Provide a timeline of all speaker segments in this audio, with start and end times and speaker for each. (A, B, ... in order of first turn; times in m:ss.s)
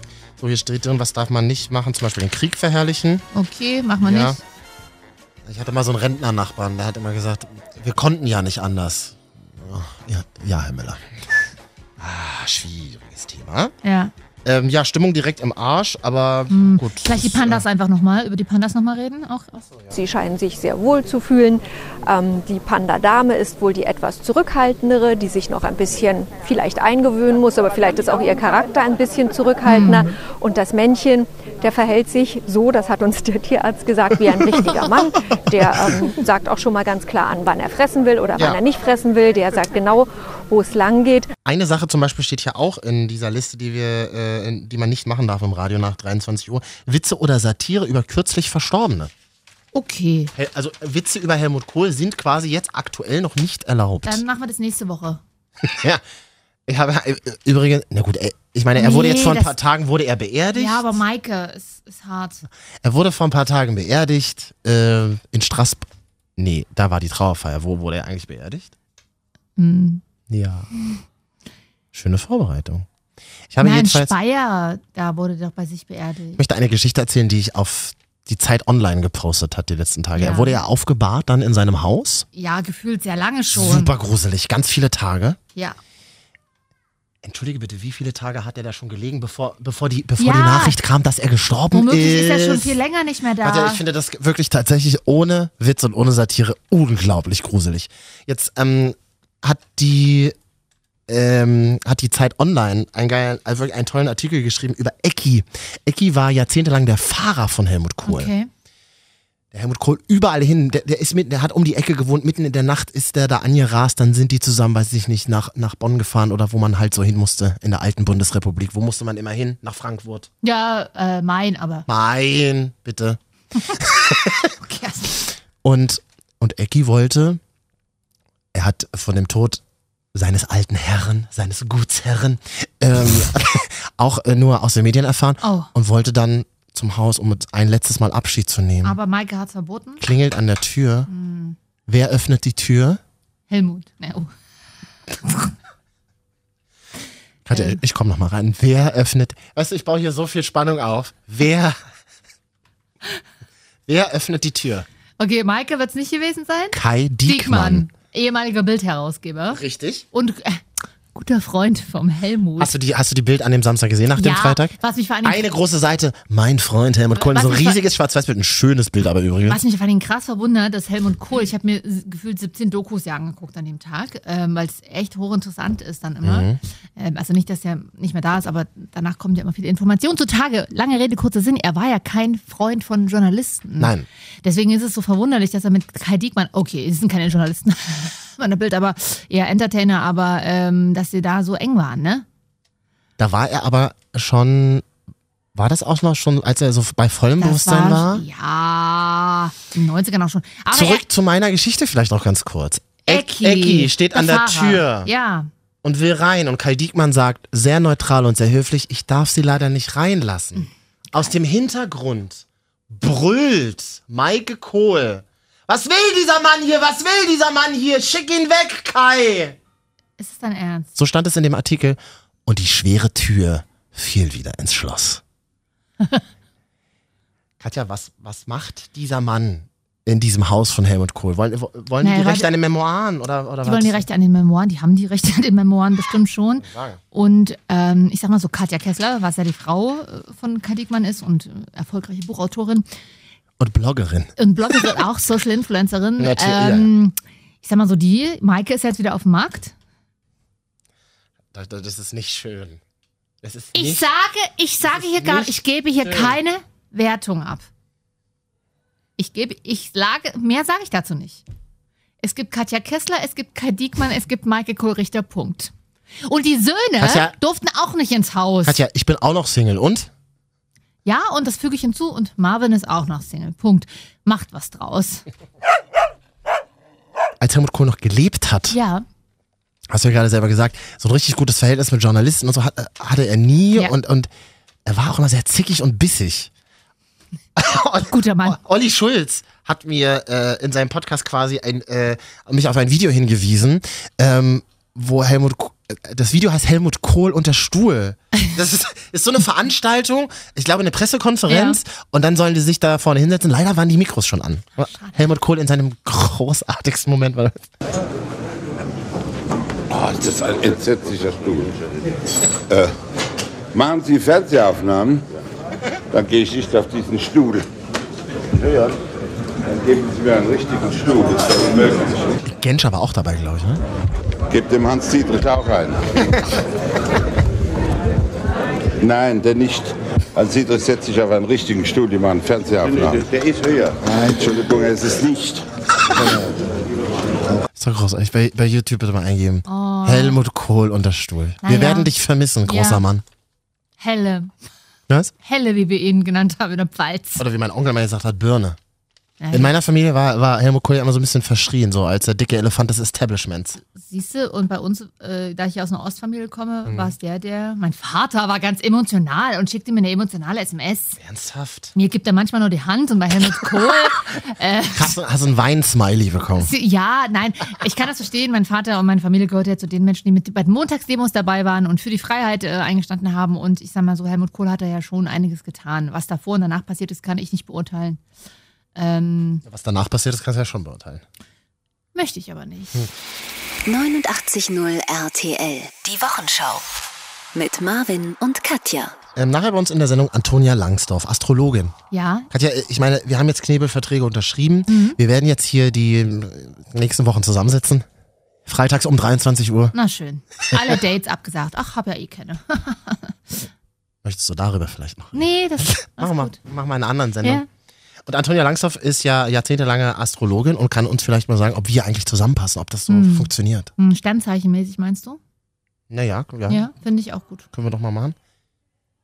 0:00.4-0:03.2 A
0:03.3-0:04.4 B
0:04.0-0:04.4 A
0:05.4-0:11.0 A
0:12.0-0:13.7 A
0:13.8-0:14.1 B
0:14.4-0:17.6 A
0:16.5-0:19.5 B
0:19.6-0:20.0 A
0:19.9-0:41.3 C
0:29.7-0:30.1 B
0:41.4-0:49.1 A
0:49.7-0:50.3 B
0:50.3-0:54.2 A
0:54.0-0:55.2 B
0:55.6-0:56.0 A
0:56.7-1:00.9 A
0:58.8-0:59.5 B
1:00.5-1:02.4 B
1:02.8-1:08.7 A
1:09.6-1:10.0 B
1:10.3-1:10.7 A
1:11.9-1:12.8 A
1:13.5-1:14.1 A
1:13.6-1:16.4 B
1:16.4-1:22.2 A
1:20.2-1:20.6 B
1:22.3-1:23.9 B
1:23.5-1:25.4 A
1:27.2-1:32.8 A
1:30.2-1:30.8 B
1:31.7-1:33.8 B
1:33.4-1:40.4 A
1:41.1-1:48.3 A
1:48.0-1:48.5 B
1:49.5-2:00.3 A
2:00.4-2:01.9 B
2:01.9-2:03.2 A
2:03.7-2:04.5 A
2:04.6-2:05.2 B
2:05.6-2:07.4 A
2:08.5-2:09.6 A
2:10.1-2:19.0 A
2:15.4-2:15.7 B
2:18.8-2:20.0 B
2:20.0-2:21.1 A
2:21.1-2:21.6 B
2:21.9-2:23.0 A
2:23.5-2:24.3 B
2:25.2-2:25.5 B
2:27.4-2:31.8 A
2:27.5-2:27.8 B
2:33.9-2:34.8 A
2:35.2-2:39.6 B
2:36.7-2:37.9 A
2:39.5-2:40.0 A
2:40.1-2:40.6 B
2:41.1-2:42.7 B
2:42.6-2:49.6 A
2:44.2-2:45.4 B
2:47.2-2:47.8 B
2:49.5-3:03.9 B
2:56.2-2:56.6 A
3:03.8-3:04.1 A
3:04.4-3:12.2 B
3:13.2-3:14.8 A
3:15.5-3:18.2 A
3:17.4-3:21.0 B
3:20.7-3:25.1 A
3:23.0-3:25.5 B
3:25.8-3:39.6 A
3:30.6-3:31.3 B
3:40.2-3:40.9 B
3:41.0-3:45.2 A
3:47.6-3:54.0 A
3:52.0-3:52.5 B
3:53.6-4:02.8 B
3:56.6-3:57.0 A
4:03.6-4:05.0 A
4:04.4-4:09.7 B
4:06.2-4:06.9 A
4:11.5-4:12.8 A
4:13.4-4:14.0 A
4:13.7-4:17.6 B
4:14.8-4:16.4 A
4:19.2-4:21.4 B
4:22.2-4:25.7 B
4:26.2-4:28.8 B
4:27.0-4:27.3 A
4:28.6-4:30.1 A
4:31.0-4:35.2 B
4:37.4-4:38.8 A
4:38.7-4:39.0 B
4:39.9-4:44.3 A
4:44.8-4:46.5 A
4:47.6-5:07.6 A
4:48.0-4:48.6 B
5:01.5-5:01.8 B
5:04.9-5:05.2 B
5:09.9-5:11.9 D
5:12.7-5:12.9 D
5:13.7-5:15.3 D
5:16.1-5:17.7 D
5:18.5-5:19.0 D
5:19.6-5:22.3 D
5:22.4-5:23.8 A
5:24.5-5:26.4 D
5:29.0-5:36.5 D
5:37.7-5:43.2 A
5:39.7-5:40.4 B
5:41.6-5:42.1 B
5:42.6-5:43.0 B
5:44.0-5:44.5 B
5:45.4-5:47.4 B
5:47.4-5:48.8 A
5:49.4-5:49.7 B
5:49.5-5:53.8 A
5:53.8-6:01.2 B
5:56.8-5:57.1 A
6:01.2-6:01.9 A
6:01.9-6:05.1 B
6:04.9-6:06.7 A
6:06.6-6:18.2 B
6:19.0-6:19.6 B
6:19.6-6:21.2 A
6:22.1-6:23.1 B
6:23.8-6:26.8 E
6:27.5-6:29.2 E
6:29.4-6:31.9 A
6:32.1-6:32.5 B
6:32.5-6:38.0 A
6:34.9-6:35.2 B
6:38.6-6:39.9 A
6:39.9-6:43.6 B
6:44.2-6:47.6 A
6:45.3-6:46.6 B
6:48.2-6:53.9 A
6:53.1-6:55.4 B
6:56.1-6:56.9 A
6:56.7-6:57.6 B
6:57.7-6:58.4 A